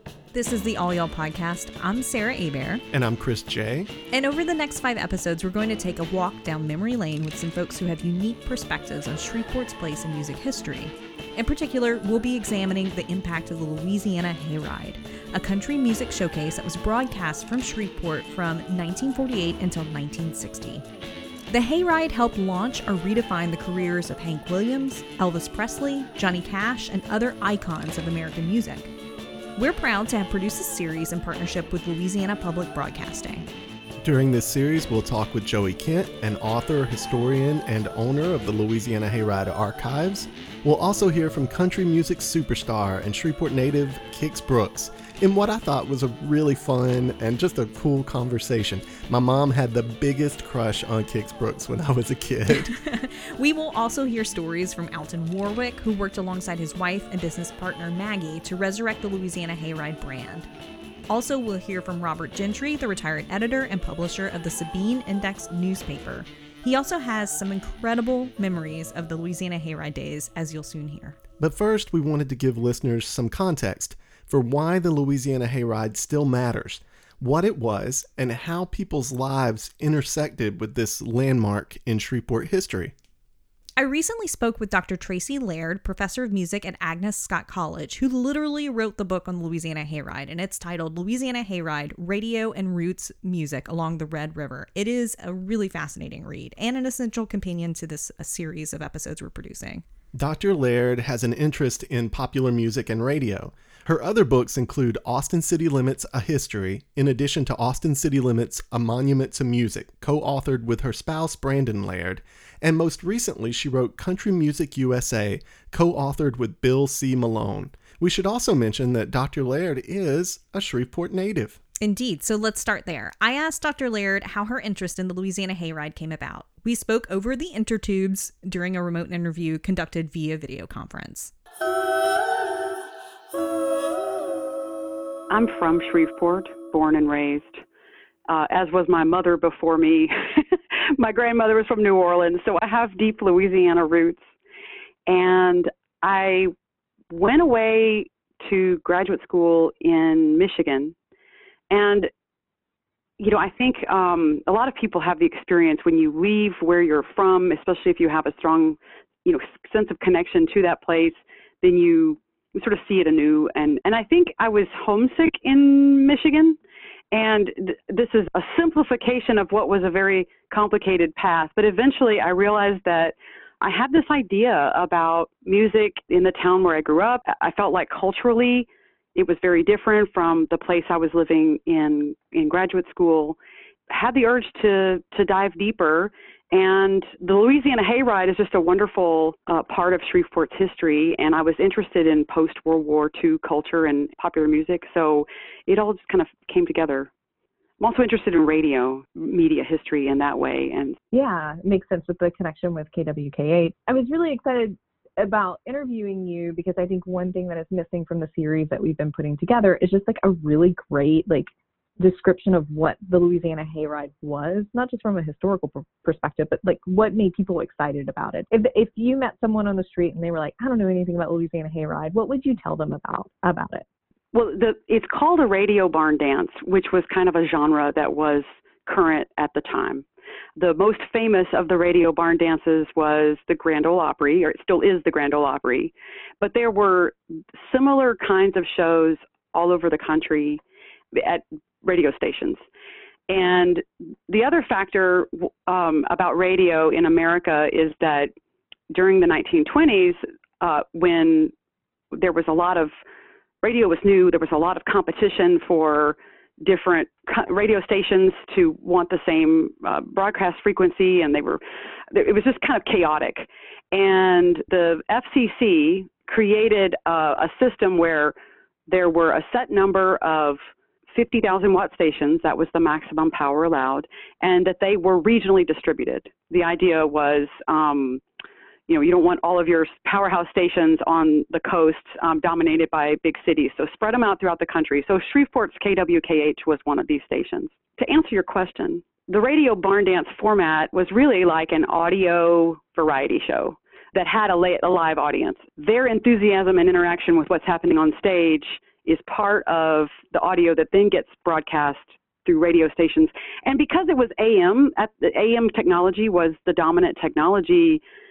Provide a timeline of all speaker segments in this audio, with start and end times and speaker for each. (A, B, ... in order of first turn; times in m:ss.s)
0:00.3-0:02.8 A
0:02.9-0:03.9 B
0:04.1-0:20.8 A
0:21.5-0:28.9 A
0:29.6-0:33.4 A
0:34.0-0:52.7 B
0:52.5-1:00.5 A
1:01.1-1:11.2 A
1:11.4-1:22.9 B
1:23.8-1:39.8 A
1:40.1-2:01.6 B
2:01.8-2:11.3 A
2:15.3-2:17.6 C
2:18.3-2:24.3 C
2:25.1-2:26.5 C
2:27.1-2:31.0 C
2:31.7-2:32.1 C
2:33.2-2:46.6 C
2:47.1-3:03.4 C
3:03.9-3:17.1 C
3:17.8-3:21.0 C
3:21.1-3:43.8 D
3:44.3-3:50.0 C
3:50.6-4:00.6 C
4:01.1-4:02.6 C
4:03.3-4:08.3 C
4:08.9-4:11.5 C
4:12.1-4:12.9 C
4:13.6-4:21.6 C
4:22.1-4:28.4 C
4:28.9-4:30.6 C
4:31.1-4:38.2 C
4:38.9-5:08.0 C